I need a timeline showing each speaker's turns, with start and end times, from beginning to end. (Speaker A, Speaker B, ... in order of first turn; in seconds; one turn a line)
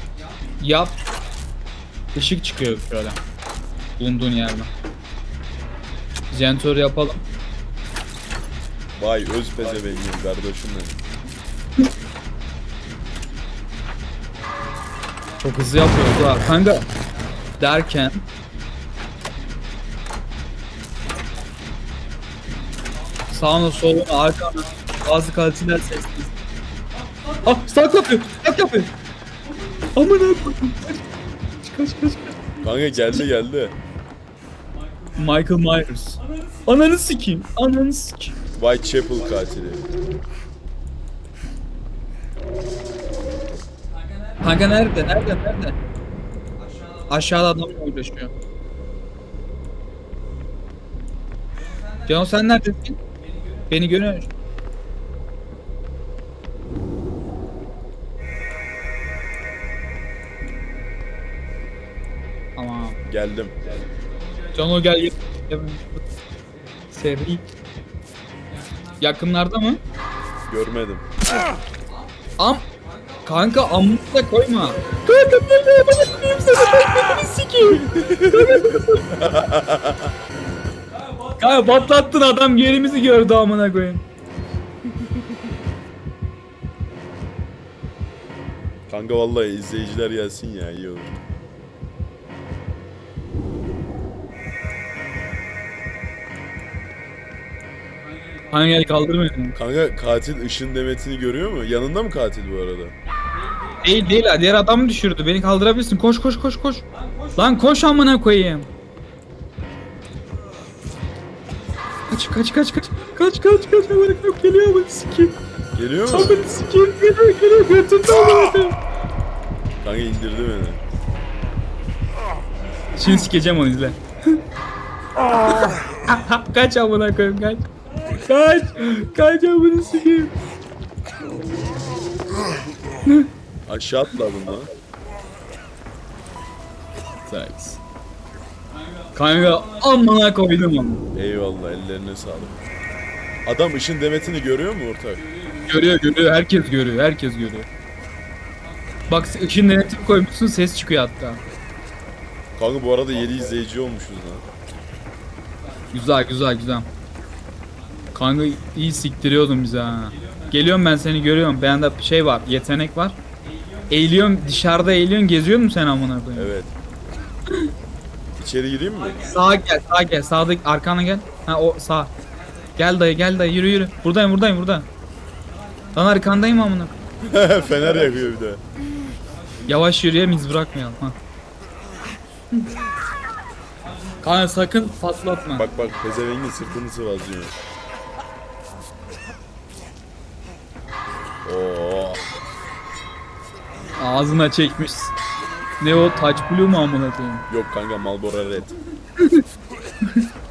Speaker A: 0.6-0.9
Speaker A: 2.1-3.2
Speaker A: 4.0-4.7
Speaker A: 6.3-7.2
Speaker B: 8.9-11.0
Speaker A: 15.4-16.9
Speaker A: 17.6-18.2
Speaker A: 23.3-26.3
Speaker A: 27.3-28.9
Speaker A: 29.9-31.0
Speaker A: 31.6-33.2
Speaker B: 32.6-33.8
Speaker A: 35.1-38.3
Speaker B: 38.5-39.8
Speaker A: 44.4-45.8
Speaker A: 47.1-48.3
Speaker A: 52.0-53.0
Speaker A: 53.7-54.3
Speaker A: 62.6-63.0
Speaker B: 63.0-63.6
Speaker A: 64.5-66.0
Speaker A: 66.9-67.4
Speaker A: 69.0-69.8
Speaker B: 70.5-71.0
Speaker A: 72.4-72.7
Speaker A: 73.2-79.1
Speaker B: 77.8-80.1
Speaker A: 81.3-84.0
Speaker B: 88.9-91.1
Speaker A: 98.5-99.5
Speaker B: 99.5-102.9
Speaker A: 103.8-108.7
Speaker A: 112.1-115.3
Speaker B: 115.7-116.5
Speaker A: 116.1-118.8
Speaker B: 119.8-120.8
Speaker A: 123.0-124.4
Speaker A: 125.5-130.3
Speaker B: 133.7-134.7
Speaker A: 137.3-137.8
Speaker A: 139.1-141.0
Speaker B: 141.1-142.6
Speaker B: 143.4-145.2
Speaker A: 145.6-147.7
Speaker A: 149.1-151.4
Speaker B: 152.5-154.4
Speaker A: 155.9-156.9
Speaker A: 158.1-163.2
Speaker A: 163.9-166.5
Speaker B: 166.3-166.7
Speaker B: 168.4-169.3
Speaker A: 169.2-172.1
Speaker A: 172.8-174.9
Speaker A: 175.9-176.9
Speaker B: 177.2-178.6
Speaker A: 179.6-181.2
Speaker A: 184.2-185.7
Speaker B: 185.5-187.5
Speaker B: 191.4-192.2
Speaker A: 194.0-195.1
Speaker A: 195.8-197.4
Speaker B: 197.5-198.7
Speaker A: 199.2-199.4